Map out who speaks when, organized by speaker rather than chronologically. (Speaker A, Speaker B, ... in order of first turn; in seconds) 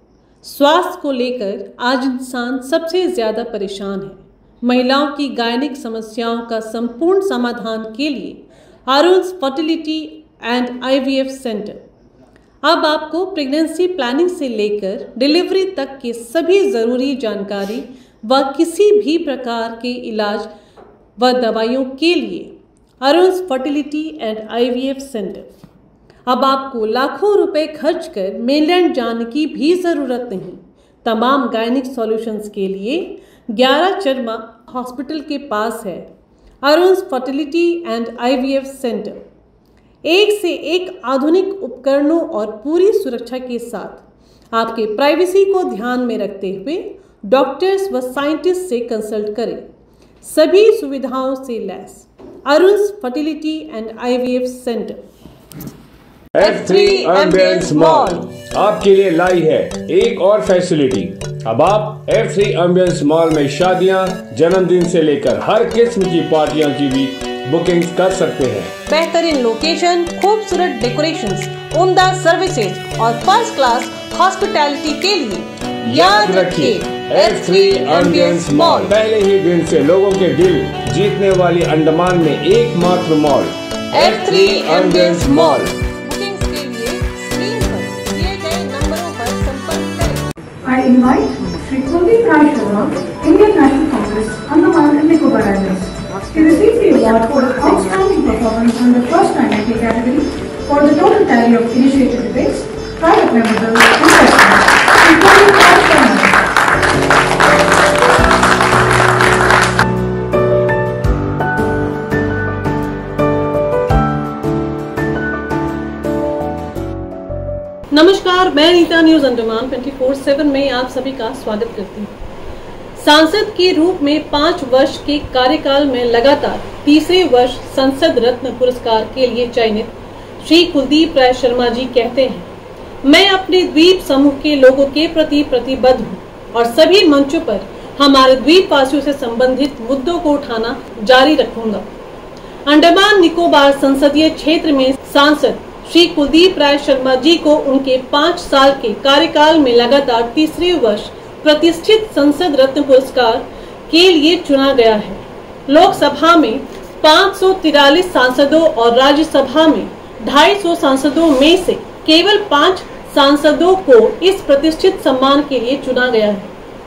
Speaker A: 0.4-11.8, 12.6-20.5, 21.2-25.5, 26.3-36.1, 36.6-39.2, 40.0-49.7, 50.2-55.0, 56.4-58.3, 68.9-79.0, 83.9-90.2, 117.9-122.1, 123.0-132.5, 133.0-141.8, 142.7-166.5
Speaker B: 56.3-68.7, 75.9-85.7
Speaker C: 90.6-106.4